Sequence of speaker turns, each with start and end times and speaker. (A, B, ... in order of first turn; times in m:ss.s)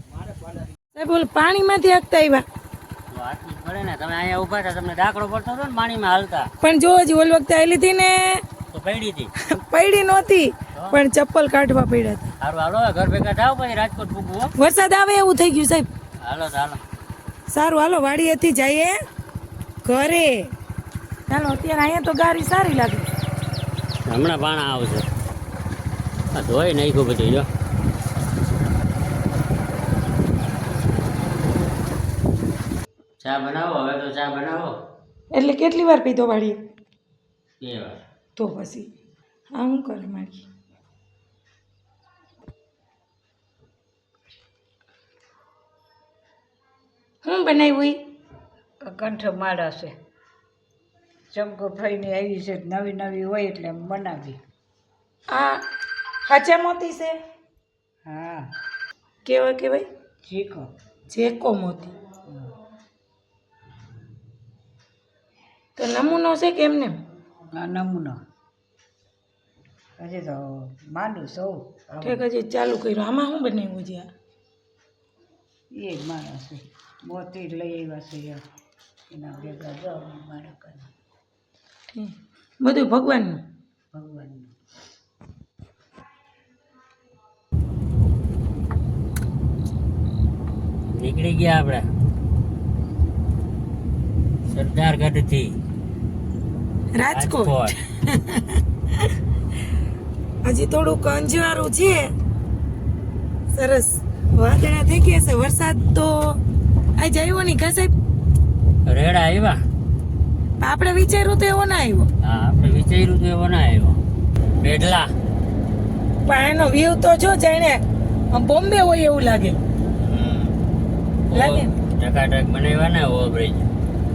0:00.9-0:02.4 A
0:03.1-0:06.5 B
0:06.6-0:08.4 A
0:08.7-0:09.3 B
0:09.5-0:12.3 A
0:12.4-0:14.5 B
0:14.6-0:15.9 A
0:16.2-0:16.8 B
0:17.5-0:19.0 A
0:19.8-0:20.4 A
0:21.3-0:23.1 A
0:24.0-0:25.1 B
0:26.3-0:27.5 B
0:33.2-0:34.7 B
0:35.3-0:36.6 A
0:37.6-0:38.0 B
0:38.4-0:38.9 A
0:39.5-0:40.4 A
0:47.2-0:48.0 A
0:48.8-0:50.0 C
0:51.3-0:54.4 C
0:55.3-0:55.7 A
0:56.2-0:57.2 A
0:58.0-0:58.5 C
0:59.2-0:59.9 A
1:00.2-1:00.7 C
1:01.1-1:01.9 A
1:02.3-1:02.5 C
1:05.8-1:07.0 A
1:07.5-1:08.2 C
1:10.0-1:12.2 C
1:12.0-1:14.1 A
1:15.7-1:18.4 C
1:19.1-1:20.9 C
1:21.9-1:23.4 A
1:23.9-1:24.5 C
1:30.9-1:31.9 B
1:34.5-1:35.6 B
1:36.9-1:39.1 A
1:37.1-1:37.7 B
1:40.4-1:42.1 A
1:43.5-1:46.4 A
1:47.0-1:47.9 A
1:48.8-1:49.6 B
1:50.6-1:52.1 A
1:52.2-1:54.0 B
1:54.6-1:55.1 B
1:56.2-1:59.6 A
2:00.0-2:00.6 B
2:01.3-2:03.7 B
2:01.3-2:01.7 A